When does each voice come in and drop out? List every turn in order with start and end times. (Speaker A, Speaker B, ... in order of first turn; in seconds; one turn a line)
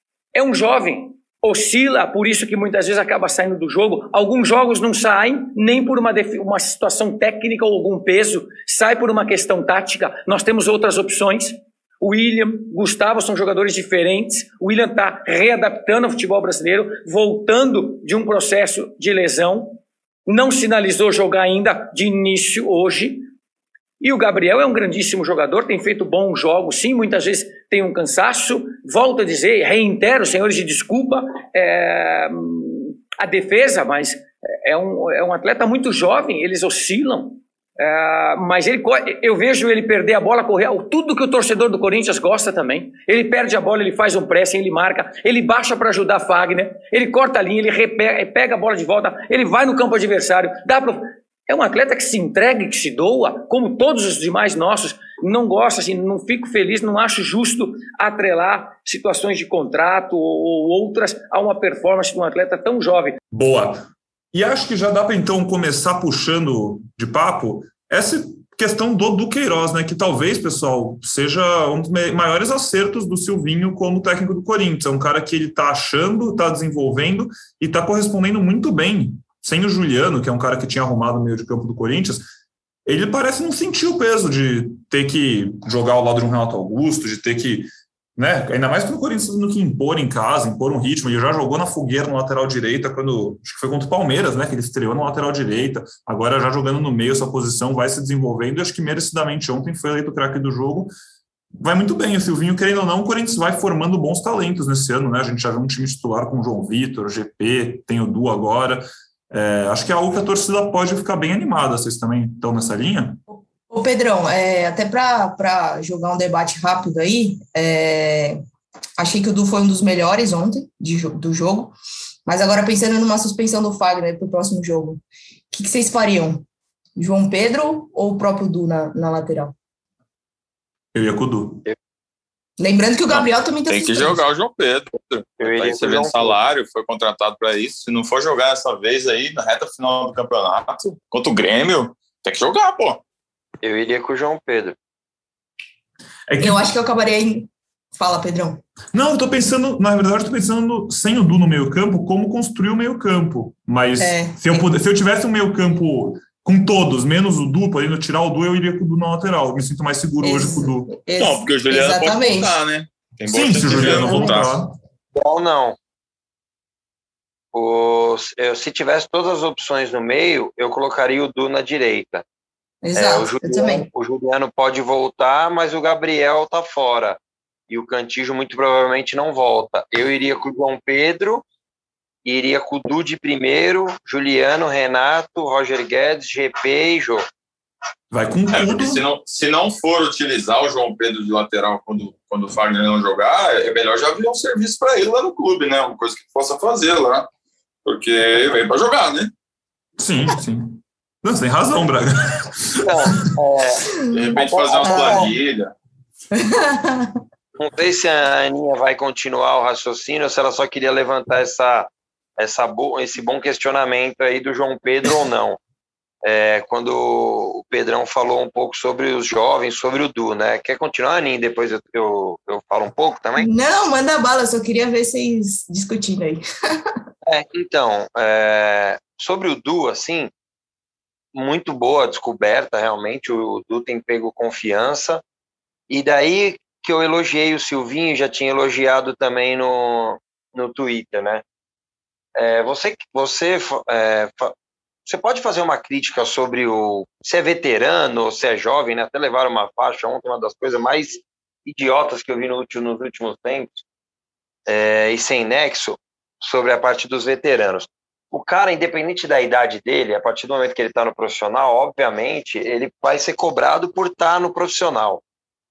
Speaker A: 0.3-23.3
Speaker A: 24.0-63.2
Speaker B: 63.3-82.3
Speaker B: 82.8-100.9
Speaker B: 101.5-113.2
Speaker C: 113.7-118.4
Speaker C: 119.0-121.7
Speaker C: 122.2-125.0
Speaker C: 125.5-126.4
Speaker C: 127.0-129.5
Speaker B: 130.9-131.6
Speaker C: 132.6-134.2
Speaker D: 133.1-143.0
Speaker E: 135.4-136.4
Speaker E: 143.6-144.8
Speaker B: 146.3-146.6
Speaker C: 146.4-148.6
Speaker B: 148.9-160.9
Speaker C: 154.0-154.7
Speaker C: 160.2-162.6
Speaker D: 161.2-164.6
Speaker B: 163.2-164.7
Speaker E: 165.1-165.8
Speaker E: 167.5-172.2
Speaker C: 172.8-173.9
Speaker E: 172.9-177.2
Speaker E: 177.7-181.4
Speaker E: 182.2-187.2
Speaker B: 188.1-189.0
Speaker D: 188.5-197.3
Speaker D: 197.8-199.3
Speaker B: 200.0-203.1
Speaker E: 202.8-203.8
Speaker D: 204.1-205.7
Speaker E: 204.4-205.3
Speaker C: 204.8-205.3
Speaker C: 206.3-207.2
Speaker E: 207.6-215.6
Speaker E: 216.2-223.5
Speaker C: 223.4-226.9
Speaker E: 227.2-230.3
Speaker E: 231.3-235.2
Speaker E: 235.9-241.4
Speaker E: 242.3-244.5
Speaker E: 245.1-253.8
Speaker E: 254.7-265.2